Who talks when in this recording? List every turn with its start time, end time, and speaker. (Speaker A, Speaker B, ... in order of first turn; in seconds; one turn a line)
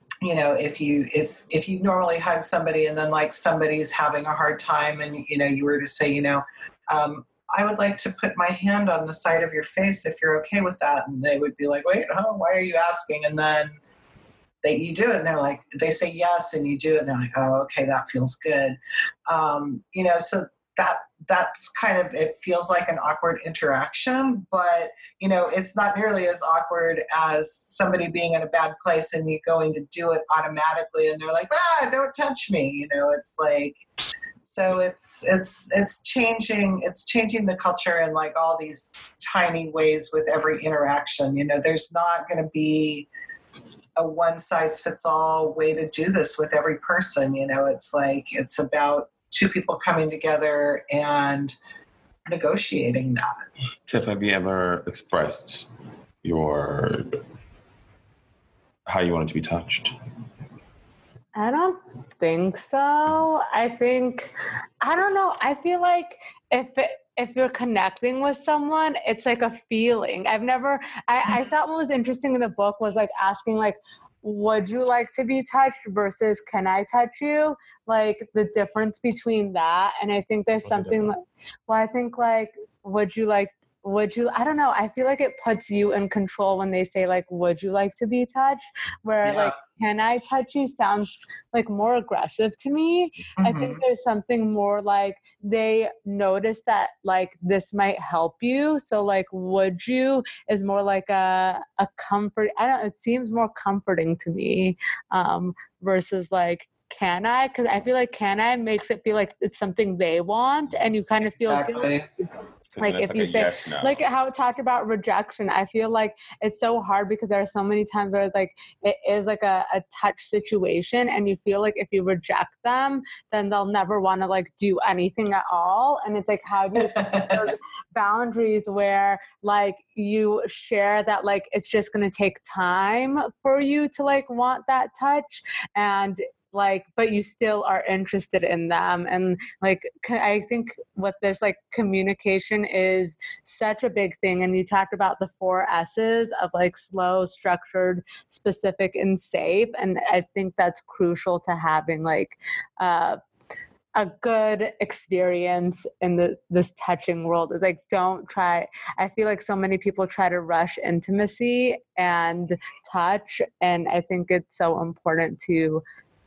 Speaker A: 0.2-13.8
Speaker A: 14.6-33.8
Speaker A: 34.4-43.1
Speaker A: 44.0-51.5
Speaker A: 52.3-53.3
Speaker B: 53.9-55.7
Speaker B: 56.2-57.2
Speaker B: 58.9-60.0
Speaker C: 61.4-111.9
Speaker B: 80.7-81.1
Speaker A: 89.2-89.6
Speaker A: 93.4-93.8
Speaker A: 111.4-112.1
Speaker B: 112.7-114.0
Speaker C: 112.8-153.2
Speaker A: 126.8-127.5
Speaker C: 153.9-165.8